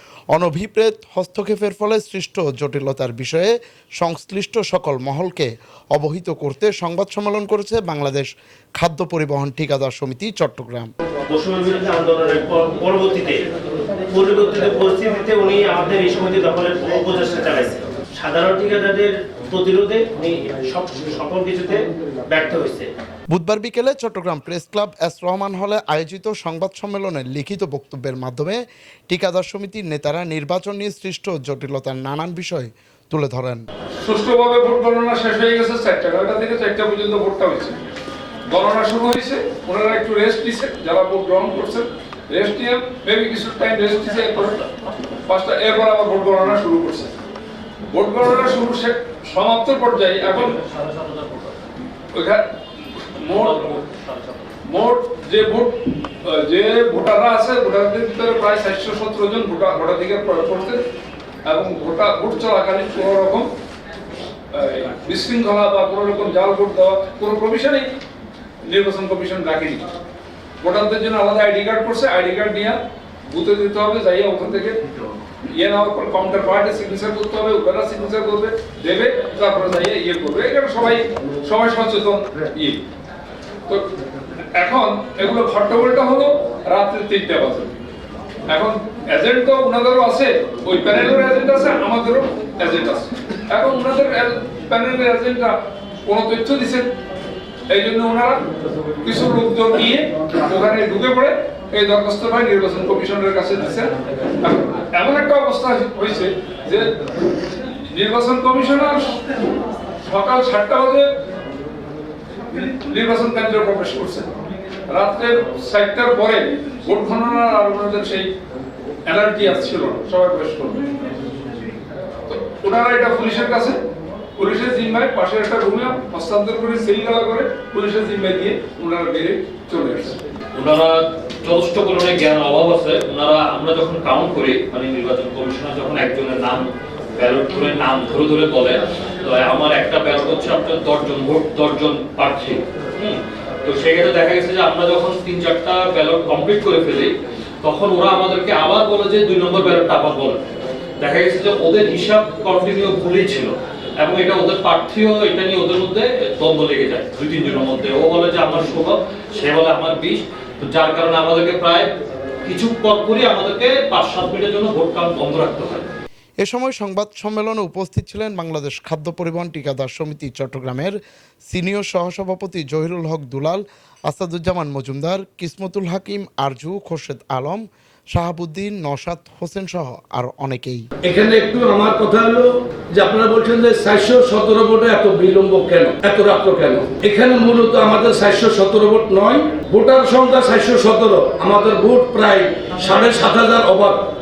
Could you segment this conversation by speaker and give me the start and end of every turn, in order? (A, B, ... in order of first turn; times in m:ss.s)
0:00.3-0:10.9 A
0:11.3-0:13.4 B
0:14.1-0:22.9 B
0:23.3-0:28.6 A
0:29.1-0:33.6 A
0:34.0-0:37.8 C
0:38.5-0:44.6 C
0:45.3-0:47.1 C
0:47.9-0:50.5 C
0:50.2-0:51.7 D
0:52.1-0:52.4 C
0:53.2-0:53.6 C
0:53.2-0:54.5 D
0:54.7-1:00.8 C
1:01.4-1:03.5 C
1:04.5-1:07.9 C
1:08.6-1:09.9 C
1:10.6-1:12.8 C
1:13.3-1:14.8 C
1:15.5-1:22.8 C
1:24.6-1:27.7 C
1:28.5-1:36.9 C
1:37.7-1:38.4 C
1:39.0-1:46.9 C
1:47.9-1:49.2 C
1:50.0-1:51.1 C
1:52.5-1:54.3 C
1:54.9-1:58.3 C
1:59.1-2:00.8 C
2:02.3-2:03.8 C
2:04.4-2:10.2 C
2:10.5-2:30.5 D
2:31.0-2:41.9 D
2:42.4-2:45.8 D
2:46.4-2:51.0 A
2:51.5-2:57.6 A
2:58.1-3:00.8 A
3:01.0-3:14.0 E